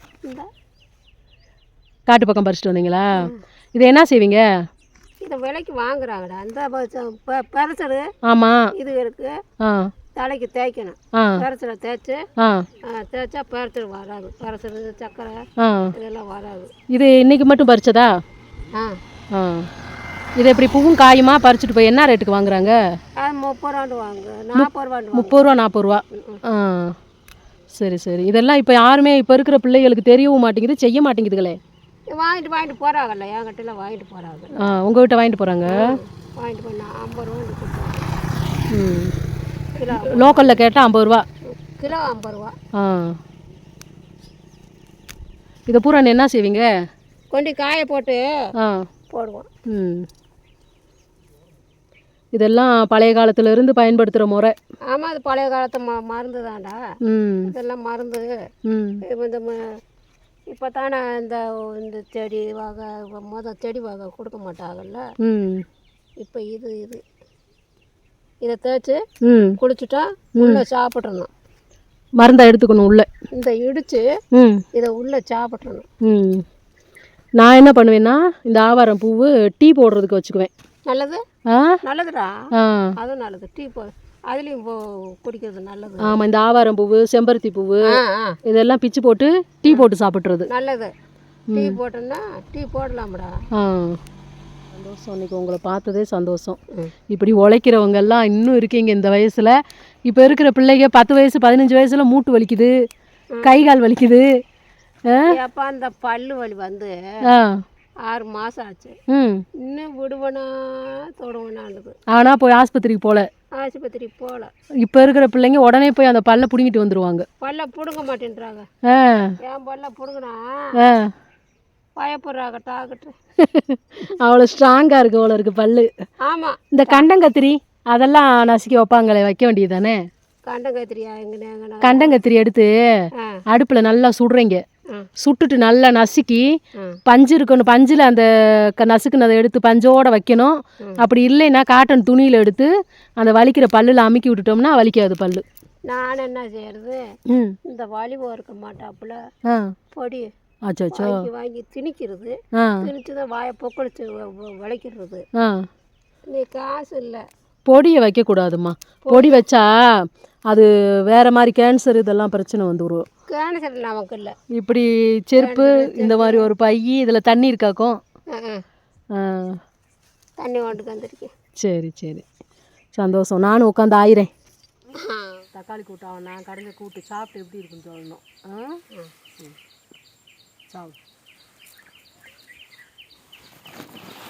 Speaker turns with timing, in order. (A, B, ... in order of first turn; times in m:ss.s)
0:02.1-0:04.4 A
0:05.2-0:08.1 B
0:08.3-0:08.7 A
0:08.7-0:09.4 B
0:09.6-0:09.9 A
0:10.2-0:12.2 B
0:11.2-0:11.4 A
0:12.4-0:12.6 A
0:12.9-0:15.4 B
0:15.6-0:15.9 A
0:15.9-0:16.7 B
0:16.9-0:18.1 A
0:19.3-0:19.7 A
0:20.4-0:22.8 A
0:23.2-0:25.5 B
0:24.6-0:27.0 A
0:26.1-0:26.4 B
0:27.7-0:31.6 A
0:32.1-0:34.7 B
0:34.6-0:36.0 A
0:35.7-0:38.1 B
0:38.7-0:39.1 A
0:39.8-0:40.6 B
0:39.9-0:41.2 A
0:41.5-0:42.6 B
0:42.8-0:43.2 A
0:45.7-0:46.7 A
0:47.3-0:48.3 B
0:48.6-0:48.8 A
0:49.1-0:49.5 B
0:49.7-0:50.1 A
0:52.4-0:54.6 A
0:54.9-0:56.8 B
0:57.0-0:57.5 A
0:57.5-0:58.3 B
0:58.7-0:59.0 A
0:59.0-0:59.7 B
1:00.5-1:05.0 B
1:05.2-1:05.6 A
1:06.2-1:07.0 B
1:08.4-1:09.0 B
1:09.2-1:09.6 A
1:09.6-1:11.3 B
1:12.2-1:13.1 A
1:13.3-1:14.0 B
1:14.3-1:14.6 A
1:14.7-1:15.9 B
1:16.0-1:16.4 A
1:17.4-1:20.5 A
1:20.9-1:21.2 B
1:21.5-1:21.8 A
1:21.8-1:22.3 B
1:22.5-1:22.9 A
1:23.0-1:26.2 B
1:26.0-1:30.5 A
1:27.9-1:28.4 B
1:30.5-1:30.9 B
1:31.5-1:31.8 A
1:31.5-1:33.3 B
1:33.6-1:34.0 A
1:34.7-1:36.6 A
1:37.1-1:39.6 A
1:40.1-1:42.7 A
1:43.3-1:43.7 B
1:43.4-1:44.3 A
1:45.3-1:47.0 B
1:47.3-1:47.6 A
1:48.0-1:49.0 B
1:49.1-1:49.4 A
1:49.6-1:52.0 B
1:52.1-1:53.3 A
1:53.6-1:54.5 B
1:54.8-1:57.3 A
1:57.4-1:58.7 B
1:58.9-1:59.4 A
1:59.4-2:00.8 B
2:00.8-2:01.1 A
2:02.0-2:03.1 B
2:03.4-2:05.9 A
2:06.2-2:07.1 B
2:06.7-2:10.1 A
2:10.5-2:12.2 B
2:11.8-2:14.6 A
2:15.2-2:25.4 A
2:25.9-2:27.0 B
2:27.3-2:27.6 A
2:27.7-2:29.2 B
2:29.5-2:29.7 A
2:29.9-2:30.3 B
2:30.7-2:31.3 A
2:30.9-2:35.2 B
2:32.6-2:32.9 A
2:35.4-2:35.7 A
2:36.3-2:37.2 B
2:37.7-2:43.1 A
2:39.0-2:39.4 B
2:43.3-2:44.4 B
2:44.5-2:48.0 A
2:45.4-2:46.5 B
2:48.3-2:48.6 B
2:49.1-2:49.6 A
2:50.4-2:51.3 B
2:51.6-2:52.2 A
2:52.9-2:54.3 A
2:55.0-2:55.4 B
2:55.5-2:58.8 A
3:00.7-3:01.0 A